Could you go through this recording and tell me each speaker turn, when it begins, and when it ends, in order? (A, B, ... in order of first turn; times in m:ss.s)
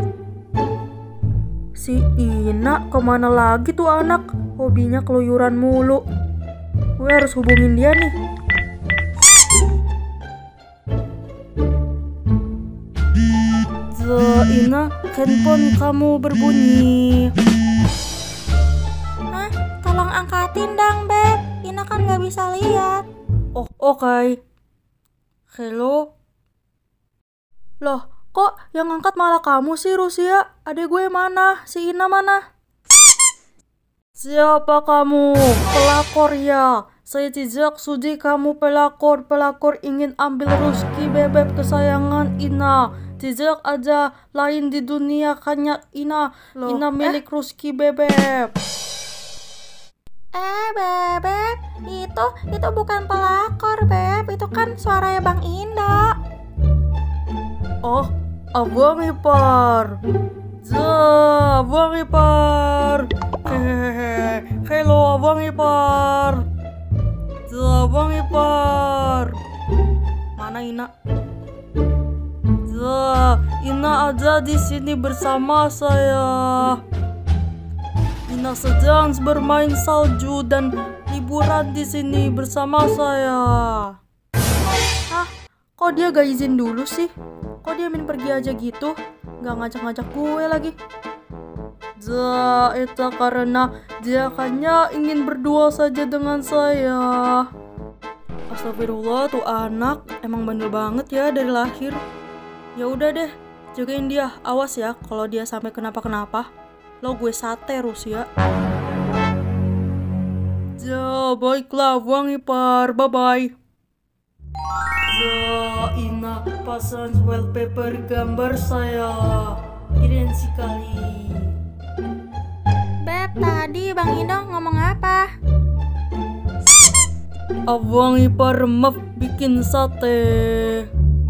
0:01.8-0:06.0 A
0:07.0-0:08.1 A
0:13.9-0:17.3 A
0:19.3-0:23.0 B
0:23.5-0:24.4 A
0:25.5-0:26.0 A
0:27.8-0:32.4 A
0:34.2-0:48.5 A
0:46.6-0:47.2 B
0:50.3-0:56.1 B
0:57.8-1:00.0 A
1:00.6-1:06.4 A
1:07.5-1:09.4 A
1:10.4-1:10.9 A
1:12.6-1:16.8 A
1:18.3-1:24.0 A
1:25.1-1:30.7 A
1:32.0-1:37.5 A
1:38.5-1:42.0 A
1:42.8-1:46.5 A
1:47.0-1:48.3 A
1:50.8-1:53.5 A
1:55.1-2:01.5 A
2:03.0-2:05.2 B
2:07.7-2:10.9 A